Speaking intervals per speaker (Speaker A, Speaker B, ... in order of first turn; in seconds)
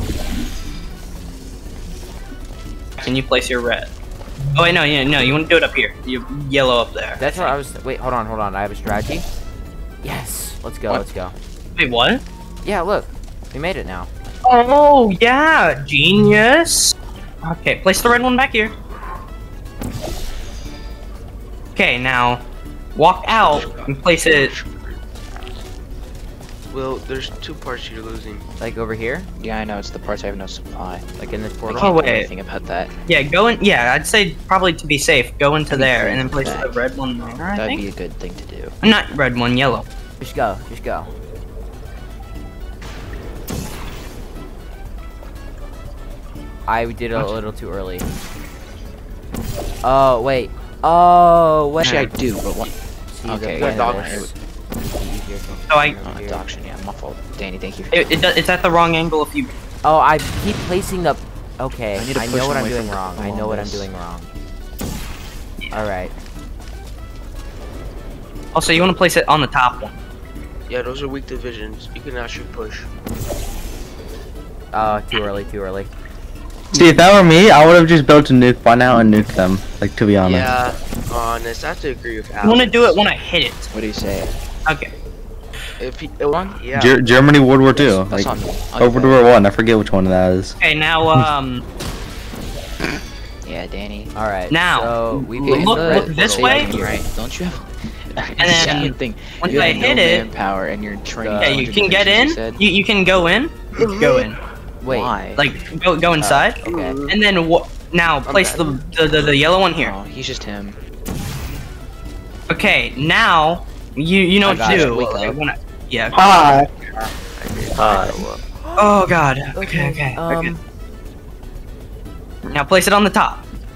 Speaker A: 3.0-3.9, 4.5-7.6, 11.8-12.2, 14.5-18.7, 21.8-22.4, 22.9-24.5, 31.8-32.3, 33.1-37.8, 38.8-39.9, 55.7-56.0, 57.9-59.5, 68.5-69.9, 82.4-83.7, 90.6-91.6, 94.5-96.7, 98.4-100.2, 101.4-104.4, 105.3-106.6, 107.1-110.0, 112.5-116.5, 118.8-120.5, 122.5-123.5
Speaker B: 7.2-9.3, 10.0-11.3, 12.6-14.1, 28.6-29.3, 31.2-32.0, 40.2-41.1, 46.7-48.1, 49.8-52.0, 53.1-56.5, 59.8-64.3, 65.7-66.1, 74.7-75.9, 94.2-97.0, 101.2-101.7, 104.8-105.1, 106.2-107.0, 114.4-115.1, 118.6-119.0, 119.5-120.6
Speaker C: 23.4-25.0, 26.7-28.4, 53.5-54.3, 70.7-72.9, 80.2-83.1, 85.8-87.0, 103.8-104.2, 106.7-107.1, 117.4-118.4
Speaker D: 29.4-31.1, 31.6-32.9, 35.7-36.8, 37.5-38.8, 51.8-52.7, 53.2-54.3, 56.0-58.0, 62.0-63.9, 83.7-84.3, 86.3-86.6, 87.7-89.2, 93.4-94.1, 95.4-102.6, 104.9-105.5, 108.3-108.7, 109.8-110.8, 114.7-115.2
Speaker E: 76.7-80.5, 86.7-90.5